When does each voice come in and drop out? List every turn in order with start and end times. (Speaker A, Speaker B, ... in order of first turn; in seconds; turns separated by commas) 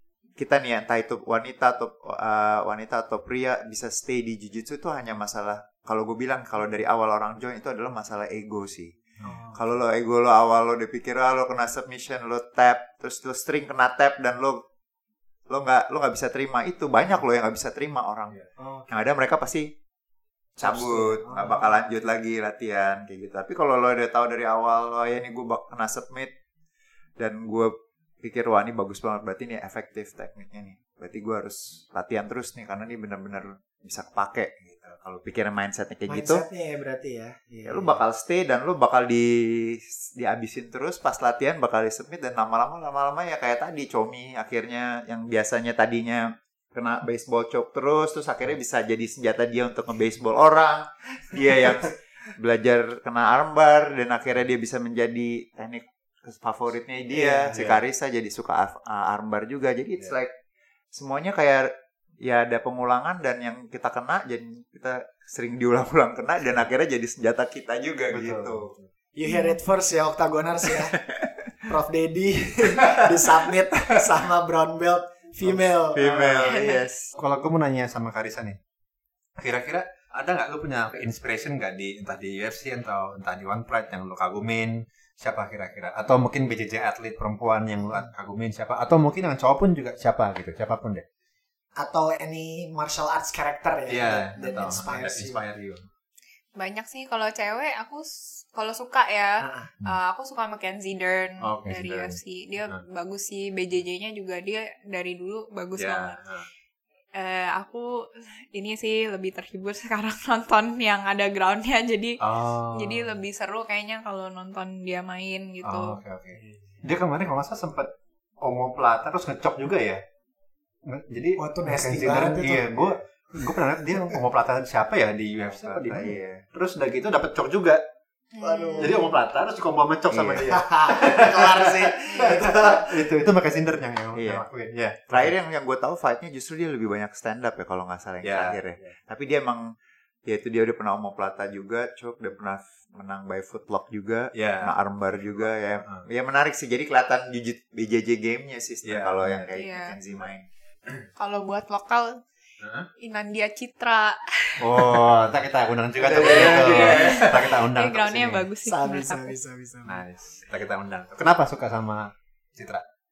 Speaker A: 0.4-9.0, Speaker B: 9.2-9.6, Speaker A: 9.5-14.6, Speaker A: 15.5-19.7, Speaker B: 18.6-18.9, Speaker A: 20.6-26.3, Speaker B: 20.6-21.8, Speaker A: 27.2-36.4, Speaker B: 36.1-38.0, Speaker A: 37.6-60.4, Speaker B: 57.1-57.8, Speaker A: 60.9-68.7, Speaker C: 68.1-68.9, Speaker B: 69.2-71.0, Speaker D: 69.2-69.6, Speaker B: 71.7-76.5, Speaker A: 75.9-77.1, Speaker D: 76.4-76.9, Speaker C: 77.1-78.6, Speaker C: 79.4-91.0, Speaker B: 87.8-88.1, Speaker B: 91.8-95.4, Speaker C: 93.9-95.9, Speaker D: 96.5-106.2, Speaker B: 99.4-99.7, Speaker C: 101.4-102.8, Speaker C: 105.8-106.5, Speaker D: 107.1-116.0, Speaker C: 112.2-113.2, Speaker C: 115.6-120.0, Speaker C: 120.8-127.8, Speaker B: 121.4-123.4, Speaker A: 125.5-126.4, Speaker D: 128.3-129.0, Speaker B: 128.4-129.1, Speaker C: 128.8-135.3, Speaker A: 130.1-130.6, Speaker B: 130.5-133.1, Speaker A: 134.2-134.4, Speaker A: 135.1-139.7, Speaker C: 138.2-138.9, Speaker A: 140.2-150.5, Speaker C: 144.3-144.7, Speaker C: 148.8-149.4, Speaker D: 149.5-150.0, Speaker D: 151.2-152.2, Speaker C: 152.6-152.9, Speaker D: 153.0-155.1, Speaker C: 154.6-158.5, Speaker A: 155.9-157.5, Speaker D: 156.2-159.3, Speaker B: 158.7-160.0, Speaker C: 159.8-162.8